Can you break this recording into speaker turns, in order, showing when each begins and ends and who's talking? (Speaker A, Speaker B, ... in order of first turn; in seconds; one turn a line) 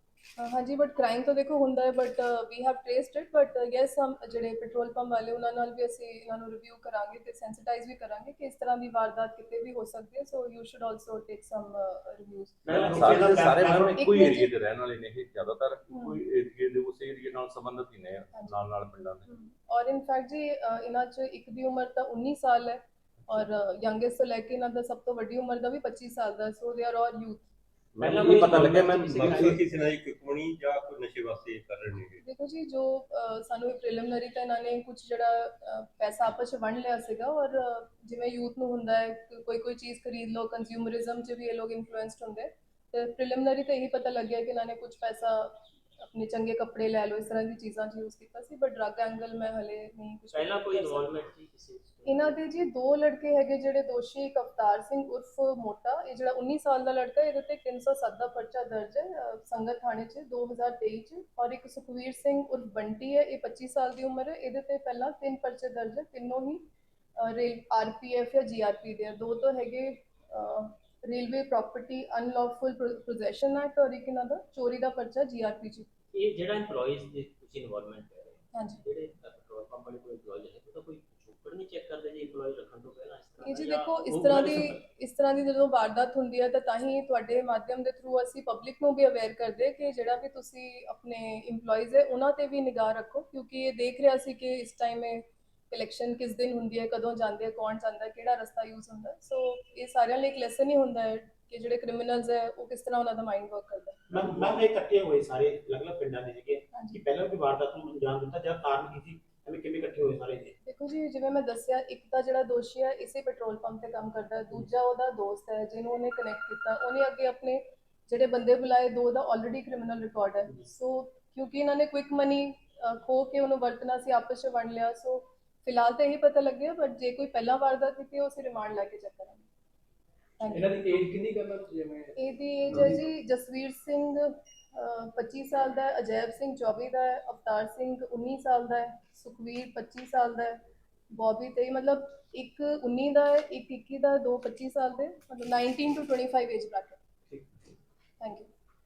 Speaker A: 0.4-13.2
Speaker B: 12.7-14.0
Speaker C: 12.7-19.3
Speaker A: 13.9-14.5
Speaker A: 15.9-16.2
Speaker A: 19.3-27.5
Speaker C: 27.9-29.6
Speaker D: 28.0-29.6
Speaker E: 28.1-32.2
Speaker A: 32.2-51.1
Speaker D: 50.3-52.4
Speaker A: 52.1-66.6
Speaker A: 67.2-75.9
Speaker D: 76.1-84.8
Speaker A: 78.5-78.8
Speaker A: 83.4-104.0
Speaker B: 104.1-110.5
Speaker A: 106.7-107.0
Speaker A: 110.7-129.4
Speaker A: 130.4-130.8
Speaker F: 130.5-132.1
Speaker A: 132.2-147.0
Speaker F: 132.7-133.0
Speaker A: 148.2-148.5